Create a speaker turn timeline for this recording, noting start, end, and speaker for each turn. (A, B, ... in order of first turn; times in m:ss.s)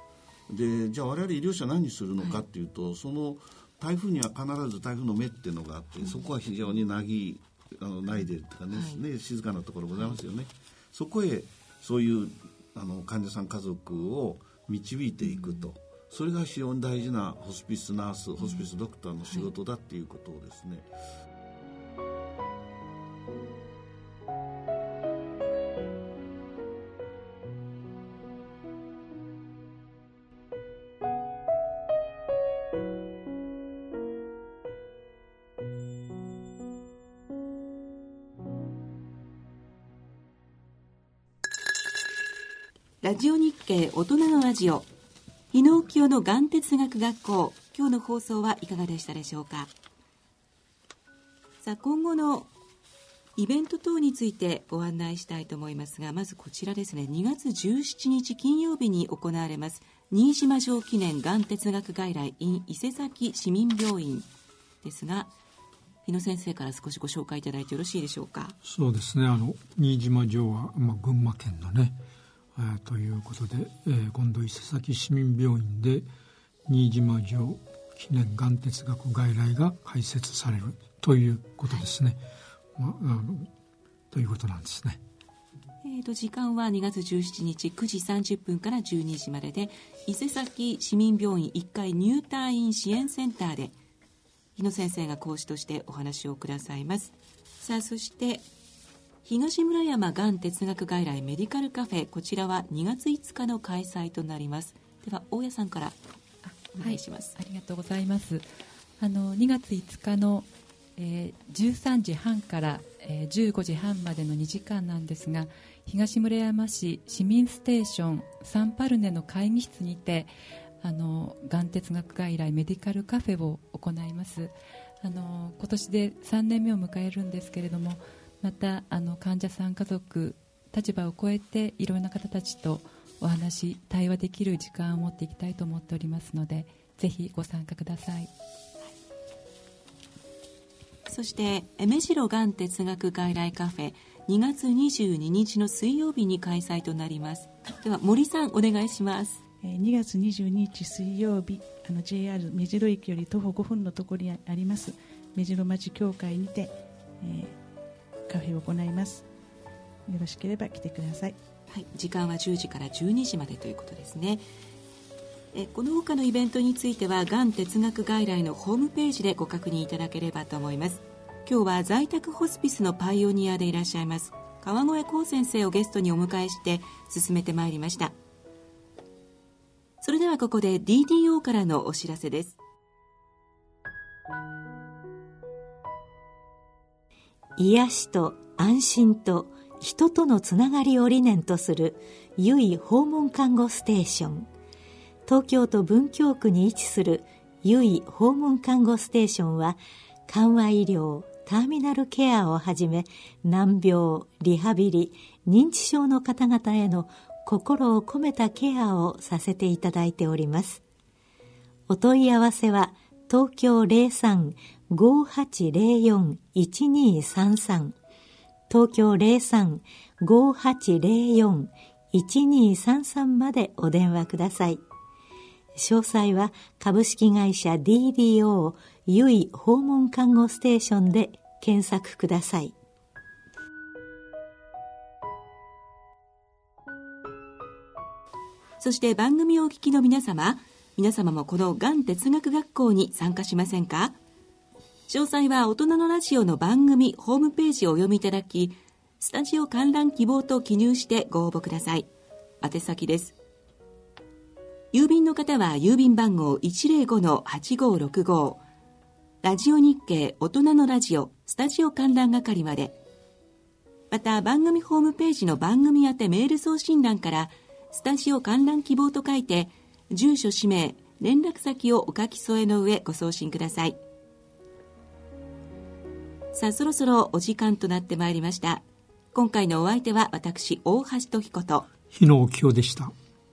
0:00.5-0:20.9 A
0:08.7-0:09.0 B
0:15.2-0:15.7 B
0:43.0-0:44.9 B
0:45.5-0:49.7 B
0:51.6-0:52.5 B
0:53.4-1:04.3 B
1:04.8-1:05.3 B
1:06.0-1:08.6 B
1:08.6-1:12.0 C
1:12.6-1:16.1 C
1:16.7-1:22.2 C
1:22.8-1:23.5 C
1:24.1-1:25.0 C
1:25.8-1:33.7 B
1:34.6-1:38.5 B
1:39.2-1:46.0 B
1:46.4-1:48.4 D
1:46.7-1:47.4 B
1:49.0-2:00.3 D
2:00.8-2:18.3 D
2:21.1-2:29.4 B
2:29.6-2:37.6 E
2:38.3-2:39.3 E
2:40.1-2:41.4 E
2:41.7-2:44.5 B
2:45.5-2:58.2 B
3:00.0-3:02.6 B
3:07.6-3:14.5 F
3:15.3-3:30.8 F
3:31.9-3:38.0 F
3:38.7-3:44.8 F
3:45.8-3:52.7 F
3:58.8-4:04.2 B
4:05.1-4:12.1 B
4:12.6-4:13.4 B
4:14.9-4:18.6 B
4:19.4-4:23.0 B
4:24.1-4:34.0 B
4:36.5-4:41.9 B
4:42.1-4:43.1 C